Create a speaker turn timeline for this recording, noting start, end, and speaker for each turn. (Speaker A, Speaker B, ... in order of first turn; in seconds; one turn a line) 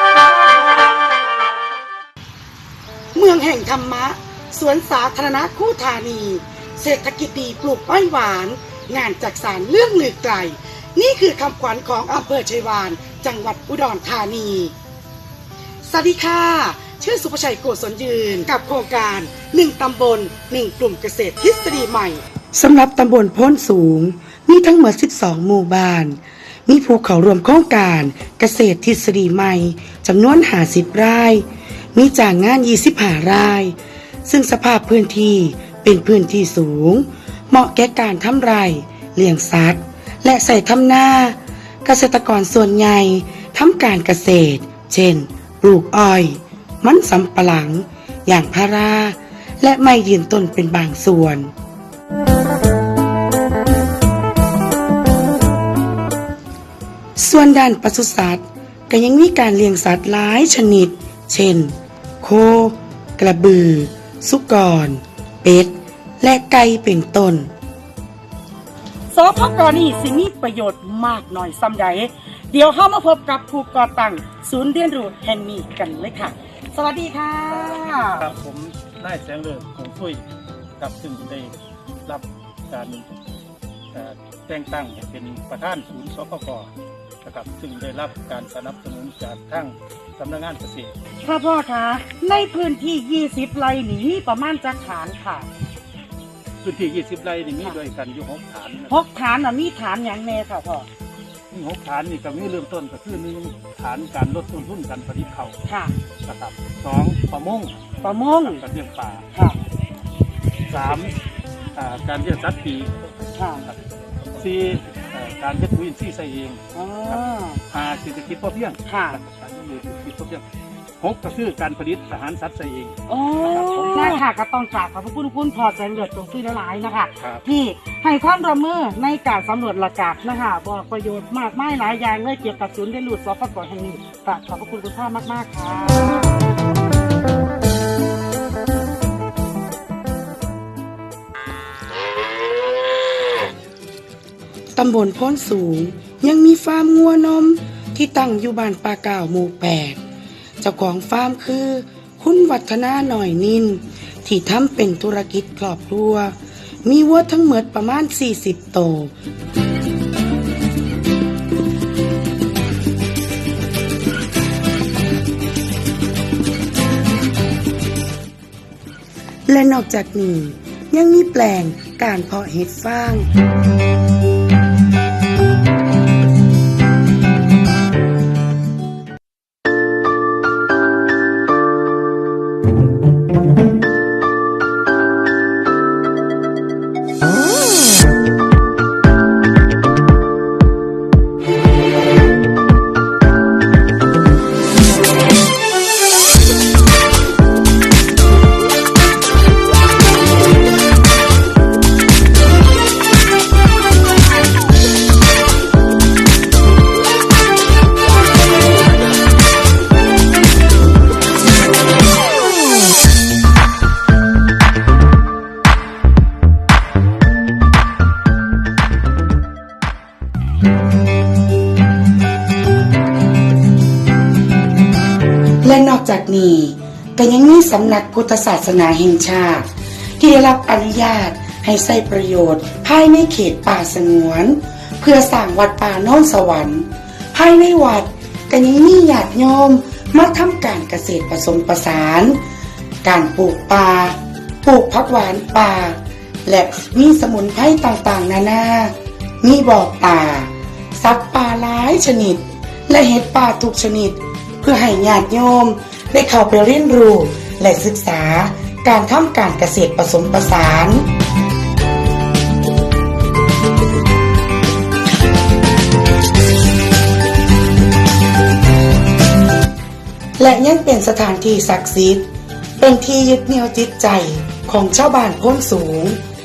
Speaker A: 3.1-14.7
Speaker A: 15.8-51.5
Speaker A: 57.2-67.5
Speaker B: 69.1-78.2
Speaker C: 77.5-80.2
Speaker C: 80.8-81.5
Speaker C: 82.0-83.0
Speaker C: 83.9-86.7
Speaker C: 87.2-90.9
Speaker B: 91.2-95.5
Speaker C: 96.6-99.0
Speaker B: 98.9-100.9
Speaker C: 101.5-105.5
Speaker B: 105.7-106.0
Speaker C: 106.2-107.8
Speaker B: 108.0-108.6
Speaker C: 108.4-109.3
Speaker C: 110.7-111.2
Speaker C: 111.8-113.1
Speaker B: 113.3-113.6
Speaker C: 113.7-120.4
Speaker B: 116.7-117.6
Speaker B: 118.8-119.2
Speaker C: 121.0-124.2
Speaker B: 123.1-136.4
Speaker A: 144.8-150.0
Speaker A: 150.6-159.1
Speaker A: 169.5-173.3
Speaker A: 225.6-229.7
Speaker A: 230.2-242.4
Speaker A: 243.0-261.1
Speaker A: 270.4-272.3
Speaker A: 272.8-276.2